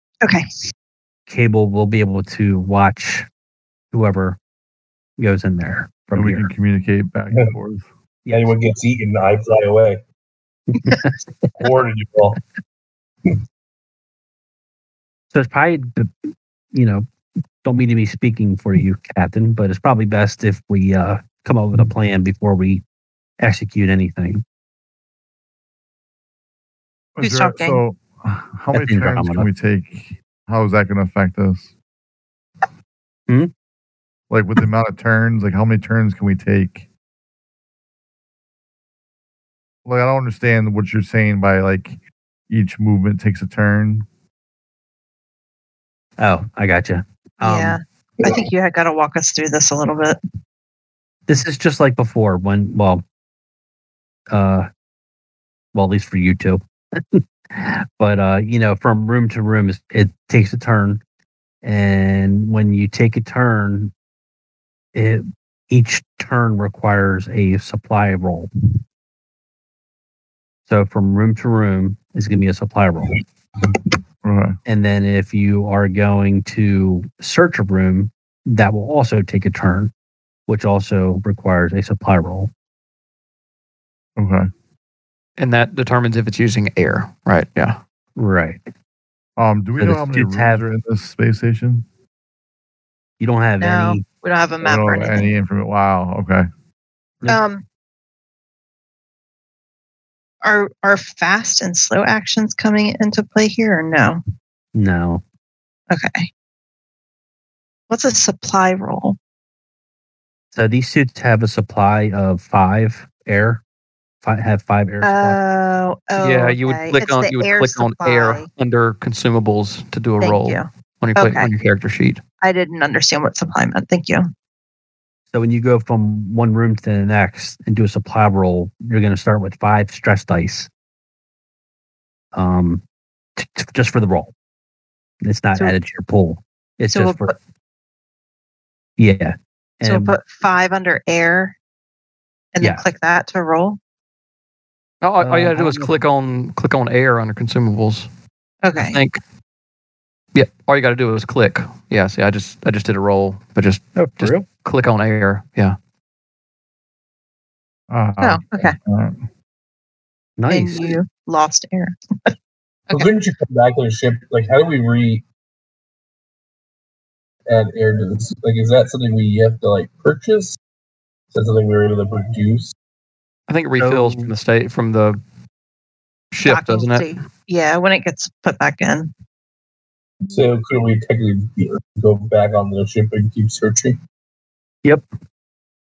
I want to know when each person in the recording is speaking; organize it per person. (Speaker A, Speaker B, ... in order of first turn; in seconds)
Speaker A: 1.3-3.3, 3.9-4.4, 5.2-6.5, 8.2-8.5, 10.7-11.6, 15.3-17.0, 17.6-22.8, 23.4-24.4, 28.7-29.5, 46.2-47.8, 51.3-53.0, 54.3-54.7, 55.7-61.0, 61.6-63.9, 64.9-68.5, 70.7-73.2, 74.7-79.9, 80.5-82.5, 88.2-88.6, 89.8-90.6, 93.2-94.0, 104.7-105.2, 110.5-113.6, 114.2-115.4, 125.3-130.7, 132.3-132.8, 133.4-134.3, 135.2-137.3, 139.0-140.2, 145.2-146.0, 153.9-154.4, 160.4-161.0, 173.8-174.3
Speaker B: 6.1-7.8, 27.1-31.7, 34.3-36.8, 39.8-42.0, 42.5-44.0, 74.2-74.5, 84.2-84.5, 89.4-91.8, 94.6-96.5, 157.9-159.2
Speaker C: 8.3-10.0, 11.6-12.4, 162.9-165.2, 167.5-170.6, 171.3-172.7, 180.3-184.0
Speaker D: 27.2-27.8, 47.4-50.2, 93.6-95.3, 97.2-97.6, 100.4-104.2, 105.9-106.3, 107.9-109.2, 115.0-118.5, 120.2-121.5, 122.4-124.3, 136.9-137.3, 139.8-141.6, 142.5-143.8, 148.6-149.0, 158.2-158.8, 160.5-162.3, 176.4-179.1
Speaker E: 85.4-87.8, 116.2-122.2, 145.0-148.1, 148.8-149.2, 150.3-155.8, 173.5-175.2, 176.3-177.1